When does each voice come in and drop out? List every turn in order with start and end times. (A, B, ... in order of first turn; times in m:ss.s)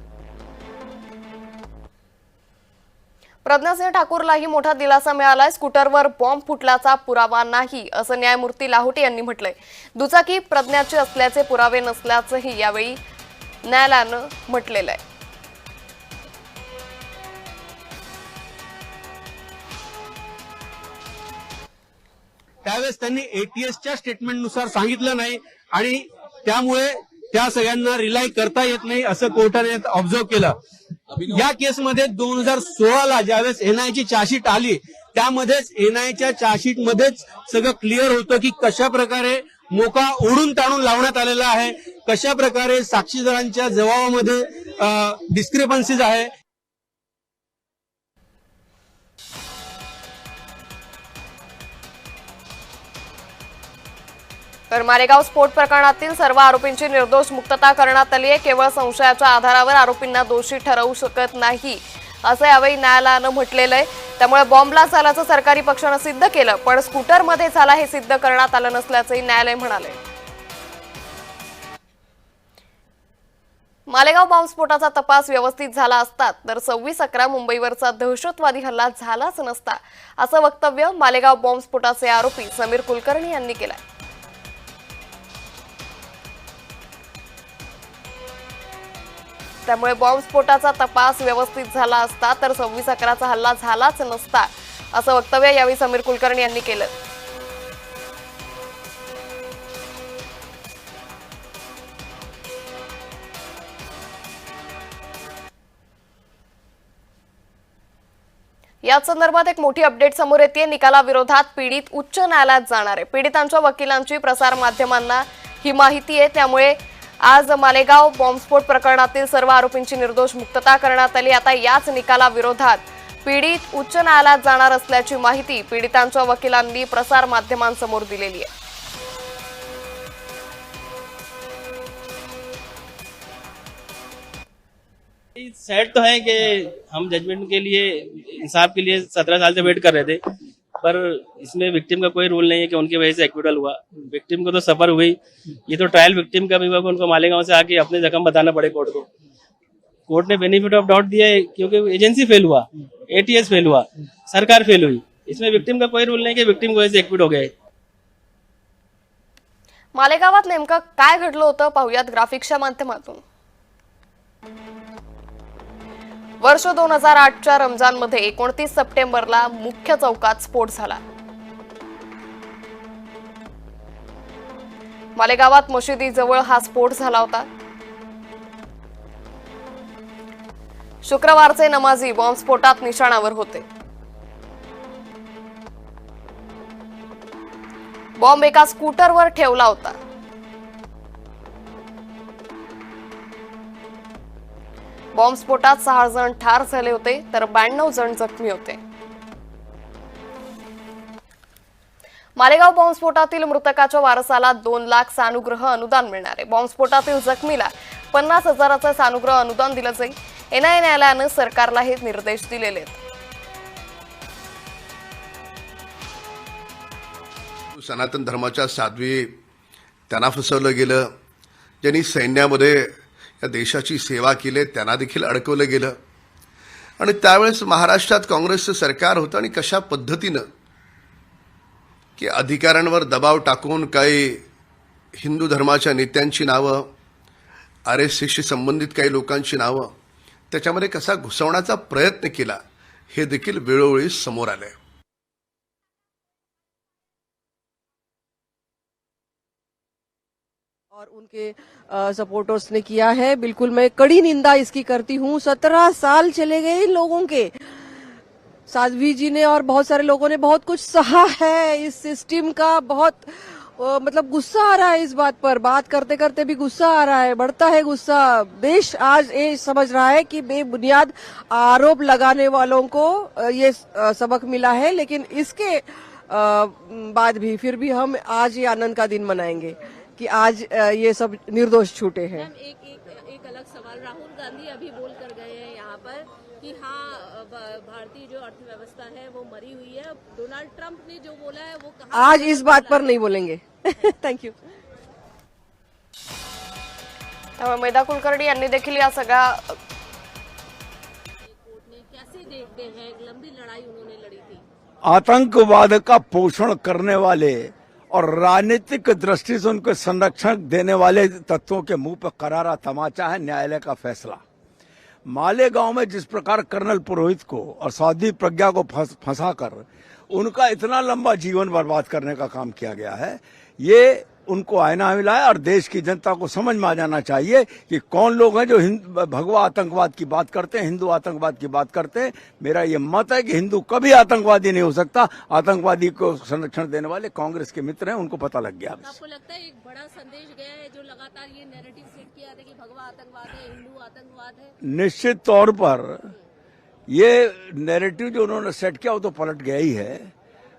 0:03.4-0:13.0 A
0:13.6-0:15.0 A
0:22.6-0:30.5 B
0:31.3-0:46.3 B
0:54.7-1:10.0 A
1:13.9-1:23.8 A
1:29.7-1:36.9 A
1:48.8-2:08.5 A
2:15.4-2:20.2 C
2:20.8-2:29.1 C
2:30.1-2:37.5 C
2:39.9-2:43.2 A
2:46.4-2:51.0 A
2:55.2-2:57.5 A
3:01.0-3:03.6 A
3:08.2-3:10.0 A
3:15.1-3:18.8 A
3:22.4-3:33.0 A
3:37.7-3:39.4 D
3:40.1-3:41.1 D
3:41.8-3:46.0 D
3:47.0-3:50.5 D
3:52.2-3:54.4 D
3:55.2-3:56.9 D
3:57.8-3:59.9 D
4:00.5-4:02.6 D
4:03.1-4:04.7 D
4:10.9-4:17.6 E
4:18.7-4:42.5 E
4:42.3-4:53.2 F
4:52.1-4:54.5 E
4:57.6-4:59.8 A
5:01.4-5:04.6 F
5:05.1-5:14.4 G
5:15.3-5:39.1 G
5:39.0-5:44.7 F
5:44.8-5:46.1 G
5:47.1-5:50.3 G